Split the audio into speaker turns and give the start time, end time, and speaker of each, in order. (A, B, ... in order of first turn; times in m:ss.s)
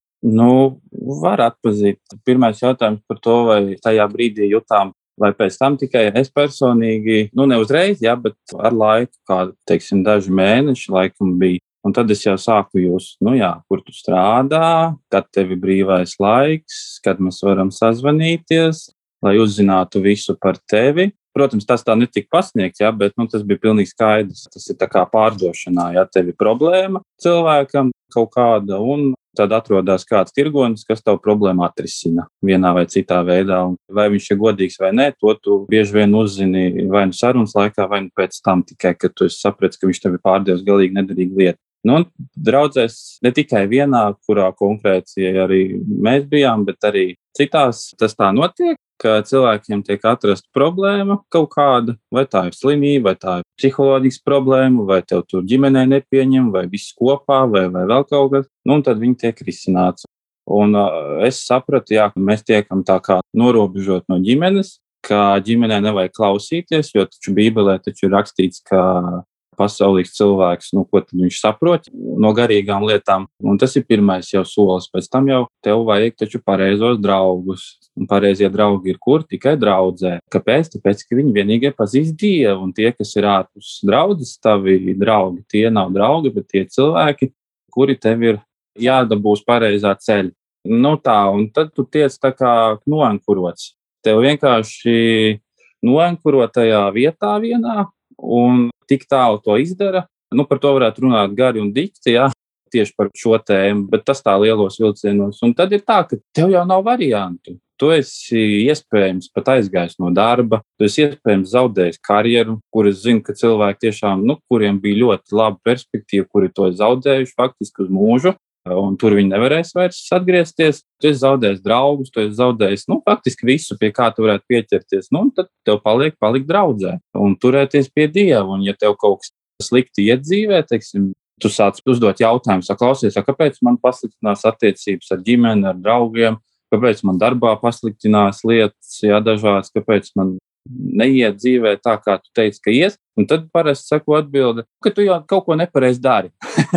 0:00.2-2:26.3 A